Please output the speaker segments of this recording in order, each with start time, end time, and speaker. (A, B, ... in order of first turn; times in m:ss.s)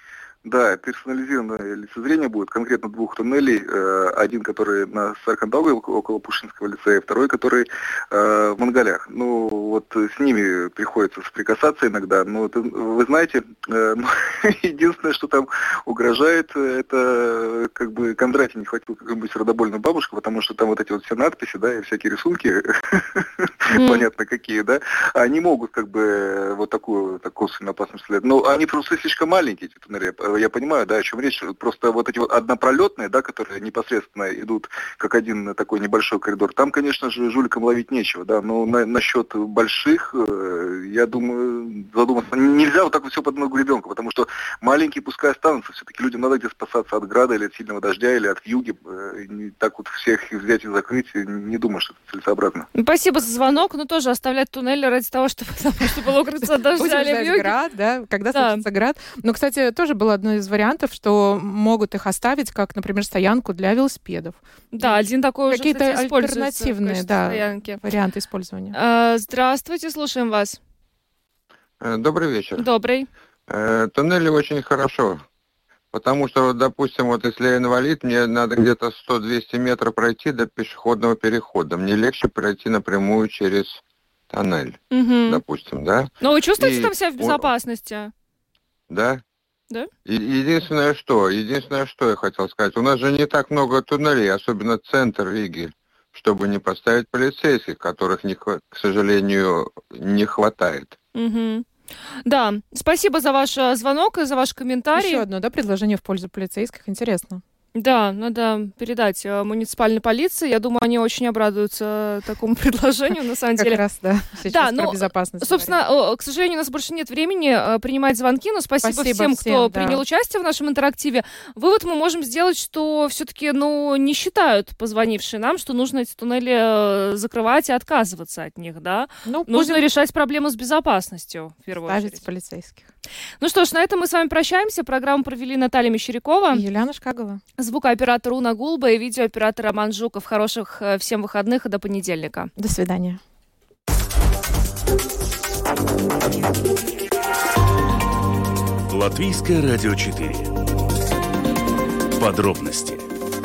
0:00.4-0:52.7 A
0:23.7-0:24.1 B
0:52.8-0:57.5 B
0:56.8-1:08.8 C
0:58.3-0:58.6 B
1:04.7-1:07.8 B
1:08.7-1:10.6 B
1:11.8-1:12.7 D
1:12.6-1:13.1 B
1:13.5-1:15.2 D
1:15.9-1:27.5 D
1:24.9-1:25.4 B
1:26.2-1:28.1 B
1:28.9-1:29.2 D
1:30.0-1:41.0 D
1:41.2-1:41.7 B
1:42.2-1:45.2 B
1:45.0-1:47.4 C
1:47.8-1:53.8 B
1:53.6-1:55.7 C
1:54.4-2:12.2 B
1:58.8-2:00.0 C
2:09.2-2:09.8 C
2:11.7-2:12.9 C
2:13.4-2:16.6 B
2:16.5-2:17.4 C
2:17.6-2:22.5 B
2:22.6-2:23.2 C
2:28.9-2:30.5 E
2:32.2-2:33.1 E